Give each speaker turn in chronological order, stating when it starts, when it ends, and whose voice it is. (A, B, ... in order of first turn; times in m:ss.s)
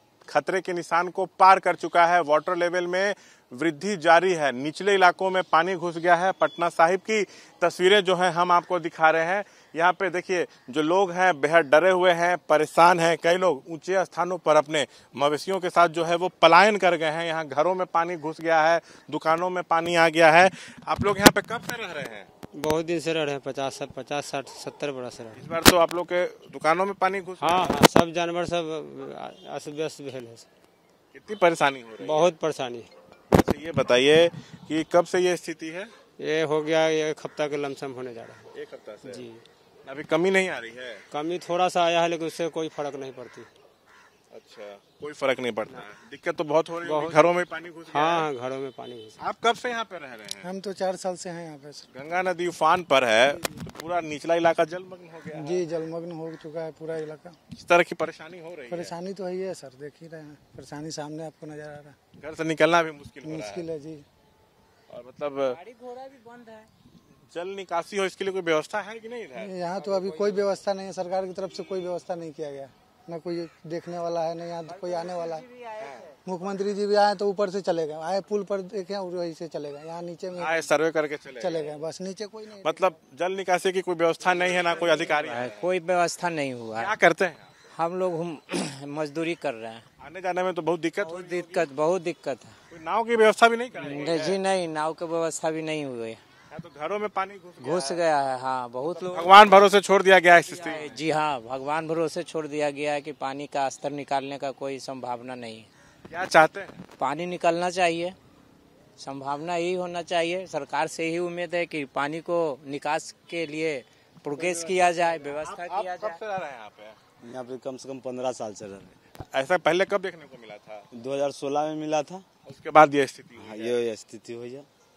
0:00.3-0:22.3 A
0:22.5-0:25.4 B
0:25.3-0:27.8 A
0:27.4-0:30.5 B
0:31.1-0:32.3 A
0:32.0-0:32.9 B
0:33.3-0:35.9 A
0:36.2-0:38.5 B
0:38.5-0:39.2 A
0:39.0-0:39.4 B
0:39.8-0:41.0 A
0:41.1-0:43.5 B
0:44.3-0:48.3 A
0:46.8-0:47.3 B
0:47.9-0:49.2 B
0:49.2-0:50.5 A
0:50.4-0:51.9 C
0:51.9-0:55.6 A
0:55.3-0:57.4 C
0:57.5-0:58.9 A
0:58.7-1:02.0 C
1:02.2-1:03.6 A
1:03.2-1:04.0 C
1:04.9-1:05.6 A
1:05.4-1:06.7 D
1:07.3-1:09.6 A
1:09.4-1:15.4 C
1:10.1-1:10.5 B
1:14.7-1:16.2 D
1:15.8-1:16.1 A
1:16.2-1:20.7 C
1:20.4-1:21.7 A
1:21.4-1:22.9 C
1:22.6-1:25.7 A
1:24.5-1:26.9 D
1:26.8-1:27.7 A
1:27.7-1:29.8 D
1:30.0-1:31.7 A
1:31.0-1:32.5 D
1:32.7-1:34.4 A
1:33.8-1:36.2 D
1:36.5-1:38.0 A
1:37.6-1:39.6 D
1:38.8-1:41.0 A
1:40.4-1:45.7 D
1:46.1-1:46.8 A
1:47.0-1:48.1 D
1:49.0-1:56.2 D
1:54.3-1:57.0 A
1:57.2-1:59.0 E
1:59.2-2:00.8 A
2:00.9-2:02.2 E
2:02.4-2:03.8 A
2:03.4-2:04.6 E